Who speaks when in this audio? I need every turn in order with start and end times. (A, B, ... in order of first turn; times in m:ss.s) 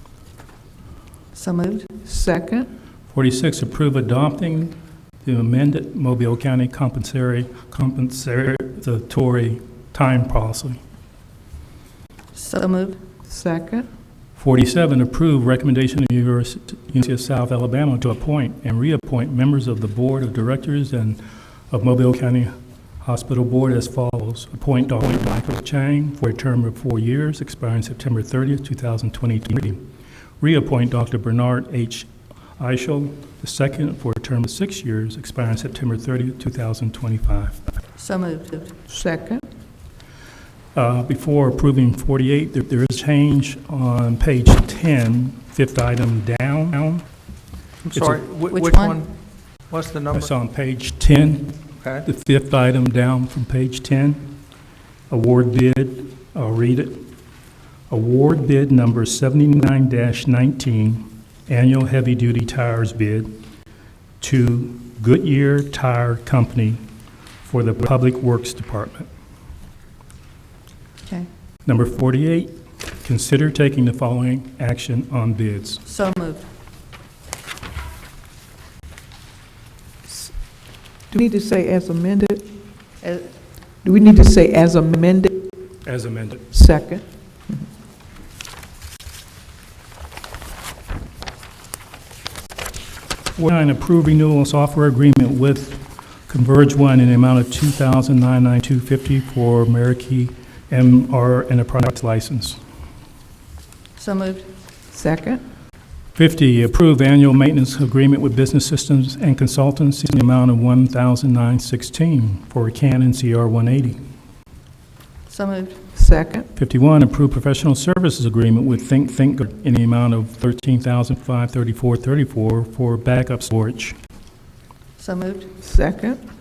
0:01.3-0:01.9 A
0:02.0-0:02.7 B
0:03.1-0:10.8 C
0:12.3-0:13.0 A
0:13.3-0:13.9 B
0:14.4-0:29.8 C
0:30.4-0:37.7 C
0:38.0-0:38.8 A
0:38.9-0:39.4 B
0:40.7-0:47.0 C
0:47.9-0:49.1 D
0:47.9-0:48.2 C
0:48.5-0:49.0 A
0:49.7-0:50.3 D
0:50.1-0:54.3 C
0:55.1-0:57.0 C
0:57.9-1:03.4 C
1:04.2-1:06.8 C
1:07.4-1:09.1 C
1:11.7-1:15.8 C
1:15.8-1:16.5 A
1:20.1-1:20.4 B
1:21.1-1:22.4 B
1:23.0-1:23.3 A
1:23.8-1:25.5 B
1:25.8-1:26.5 C
1:26.5-1:27.6 B
1:33.4-1:42.6 C
1:44.0-1:44.5 A
1:44.9-1:45.4 B
1:46.2-1:54.0 C
1:55.3-1:55.9 A
1:56.0-1:56.5 B
1:56.6-2:04.0 C
2:05.0-2:05.6 A
2:05.6-2:06.2 B